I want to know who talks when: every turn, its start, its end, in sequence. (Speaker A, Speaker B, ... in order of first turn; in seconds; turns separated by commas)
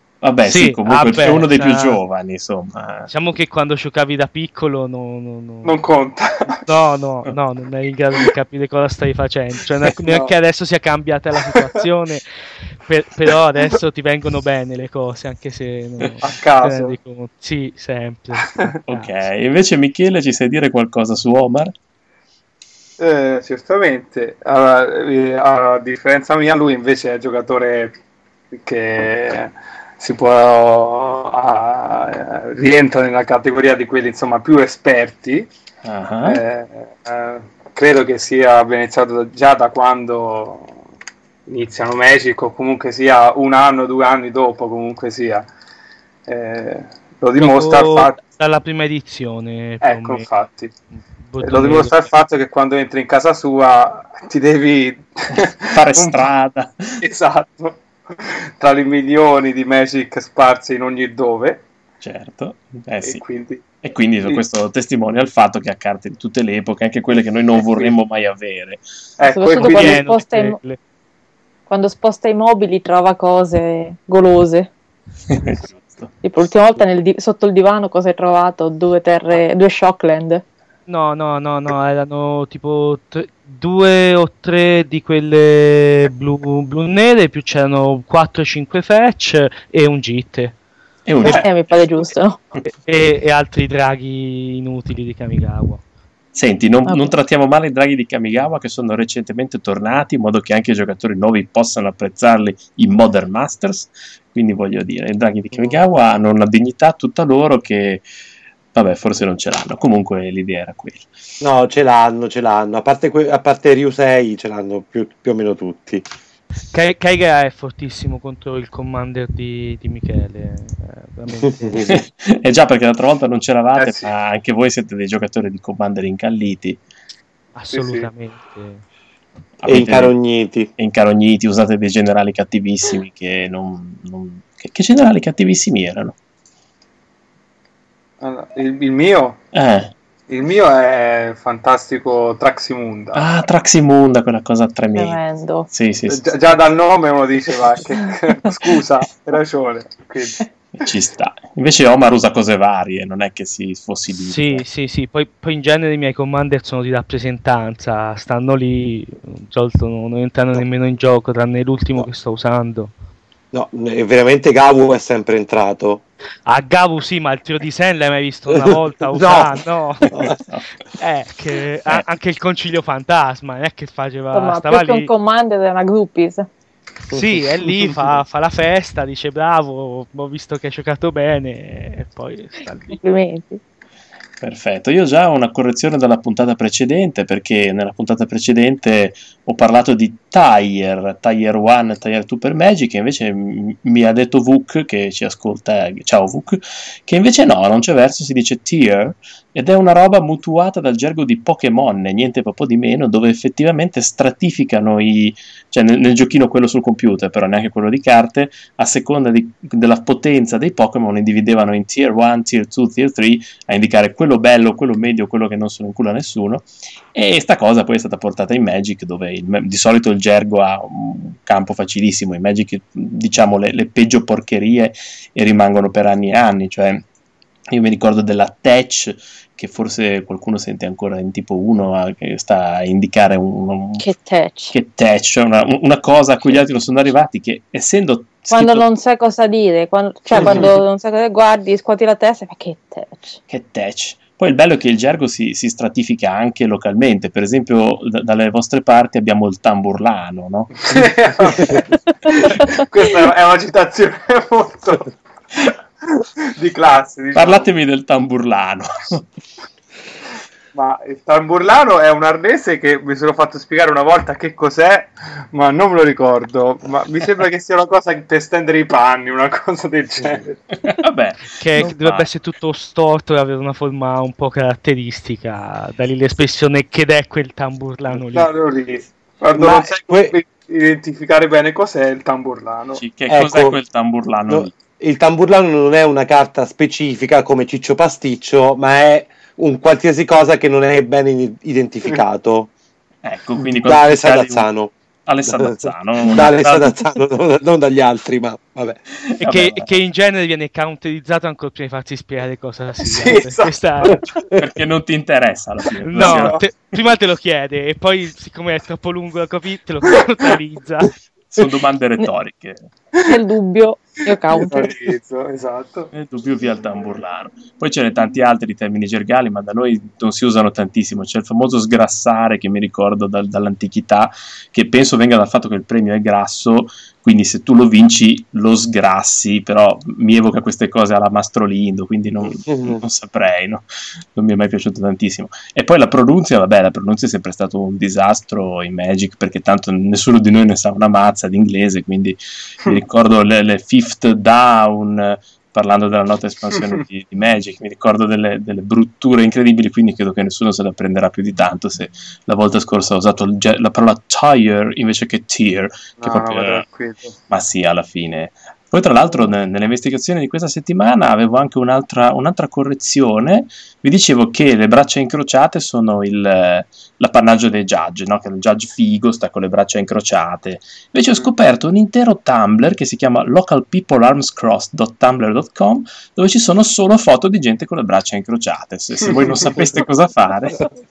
Speaker A: 0.2-3.1, Speaker B: 0.4-2.0, Speaker B: 3.1-5.7, Speaker C: 5.6-6.7, Speaker B: 6.7-12.3, Speaker C: 9.9-10.3, Speaker B: 12.8-19.1, Speaker C: 16.2-17.0, Speaker A: 18.9-21.7, Speaker C: 23.0-27.9, Speaker C: 28.5-35.5, Speaker A: 35.8-36.4, Speaker C: 36.2-40.8, Speaker C: 41.5-45.5, Speaker C: 46.3-48.2, Speaker B: 47.4-50.3, Speaker C: 49.8-50.7, Speaker B: 51.2-52.1, Speaker C: 51.4-56.2, Speaker A: 55.3-57.0, Speaker C: 57.0-61.6, Speaker A: 62.0-63.2, Speaker C: 63.0-63.6, Speaker A: 63.8-68.8, Speaker C: 67.6-68.0, Speaker C: 69.2-70.0, Speaker D: 69.3-70.6, Speaker B: 69.6-70.8, Speaker D: 71.7-74.7, Speaker A: 75.3-76.2, Speaker D: 76.2-80.4, Speaker B: 80.9-90.6, Speaker A: 91.1-91.7, Speaker D: 91.2-92.4, Speaker B: 92.7-95.8, Speaker A: 96.3-108.1, Speaker D: 96.9-97.1, Speaker A: 108.7-111.1, Speaker E: 111.4-116.0, Speaker B: 116.7-121.9, Speaker E: 121.4-122.0, Speaker A: 121.9-126.8, Speaker C: 123.8-124.1, Speaker B: 127.6-128.8, Speaker C: 127.7-128.1, Speaker A: 129.6-130.2, Speaker E: 129.7-130.7, Speaker A: 130.8-136.2, Speaker C: 138.2-139.4, Speaker A: 139.5-139.9, Speaker C: 140.3-143.2, Speaker A: 143.1-146.2, Speaker D: 144.9-145.7, Speaker C: 146.1-150.4, Speaker A: 150.8-154.7, Speaker B: 154.2-162.9, Speaker E: 163.5-166.0, Speaker B: 166.5-170.2, Speaker E: 168.5-169.6, Speaker E: 170.1-170.4, Speaker A: 170.3-170.7, Speaker B: 171.0-175.1, Speaker D: 174.3-176.5, Speaker B: 177.1-183.0, Speaker D: 182.9-183.6, Speaker A: 184.4-227.0, Speaker A: 227.7-234.1, Speaker D: 234.0-234.8, Speaker A: 234.7-238.9, Speaker D: 238.5-243.4, Speaker C: 240.4-240.7, Speaker A: 240.4-240.7, Speaker A: 243.5-251.8, Speaker C: 250.9-257.7, Speaker A: 257.3-259.3, Speaker C: 260.7-270.6, Speaker A: 270.8-272.3, Speaker B: 271.6-278.5, Speaker C: 278.2-283.0, Speaker E: 279.5-280.3, Speaker A: 283.0-284.8, Speaker E: 283.3-283.8, Speaker E: 284.5-292.7, Speaker A: 293.2-294.7, Speaker E: 293.6-294.9, Speaker A: 295.2-296.9, Speaker E: 295.5-299.0, Speaker A: 299.2-299.9, Speaker B: 299.4-304.2, Speaker C: 303.0-304.2, Speaker A: 304.6-306.6, Speaker B: 306.1-311.2, Speaker C: 306.2-306.6, Speaker A: 311.5-312.9, Speaker D: 313.3-314.9, Speaker C: 314.5-316.1, Speaker A: 316.1-356.9, Speaker E: 332.4-333.0, Speaker C: 356.2-357.4, Speaker A: 357.5-380.9, Speaker C: 379.2-379.9